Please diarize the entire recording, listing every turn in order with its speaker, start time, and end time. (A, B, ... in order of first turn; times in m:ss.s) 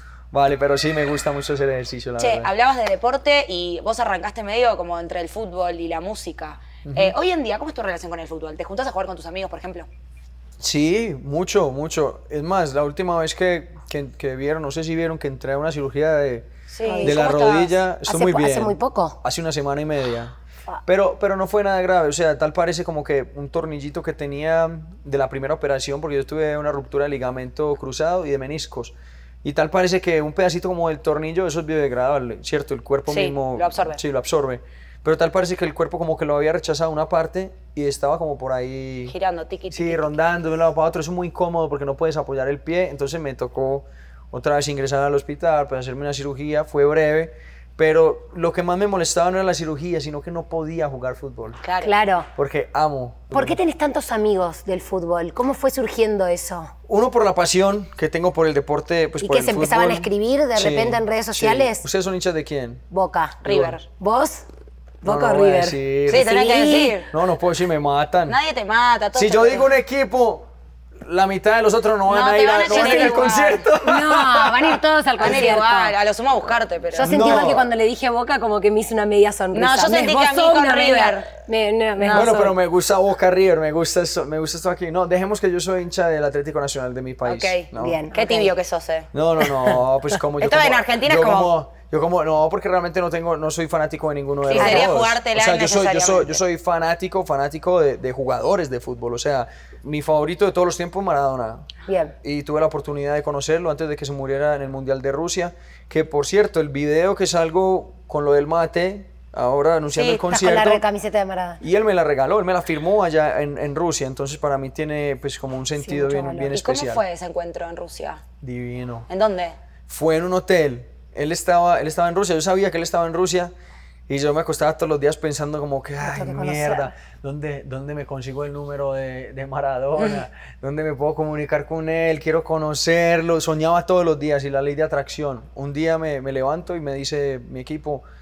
0:00.3-0:02.5 A
0:02.2-0:09.9 B
0:06.8-0:07.2 A
0:10.6-0:16.5 A
0:16.7-0:17.7 B
0:16.8-0:17.5 C
0:17.0-0:20.3 A
0:18.0-0:19.2 C
0:20.8-0:39.1 A
0:33.1-0:34.0 B
0:39.1-0:40.1 B
0:39.7-0:51.6 A
0:51.6-0:51.9 B
0:51.8-0:52.3 C
0:52.4-0:53.6 A
0:53.3-0:56.7 C
0:56.9-1:02.8 A
0:59.2-1:01.8 C
1:02.9-1:03.4 C
1:03.4-1:03.8 B
1:03.4-1:03.8 A
1:04.0-1:04.4 C
1:05.0-1:06.4 A
1:05.0-1:07.0 C
1:06.1-1:07.1 B
1:07.1-1:08.4 A
1:08.2-1:09.7 B
1:09.1-1:10.4 A
1:11.0-1:14.8 A
1:12.1-1:13.6 B
1:12.7-1:15.9 C
1:15.2-1:17.5 B
1:16.9-1:22.5 C
1:17.0-1:17.7 A
1:19.5-1:21.3 B
1:22.0-1:22.2 B
1:22.1-1:28.0 A
1:27.2-1:29.1 B
1:27.8-1:28.5 C
1:29.1-1:41.6 A
1:30.4-1:31.5 B
1:34.5-1:36.4 B
1:34.5-1:34.9 C
1:41.9-1:42.1 C
1:42.2-1:50.8 A
1:49.9-1:50.2 B
1:50.3-1:51.6 C
1:51.6-1:57.0 A
1:55.8-1:56.5 C
1:56.5-1:58.2 B
1:58.4-1:59.1 A
1:59.1-1:59.6 B
1:59.9-2:03.5 A
2:04.1-2:18.0 A
2:06.0-2:06.9 C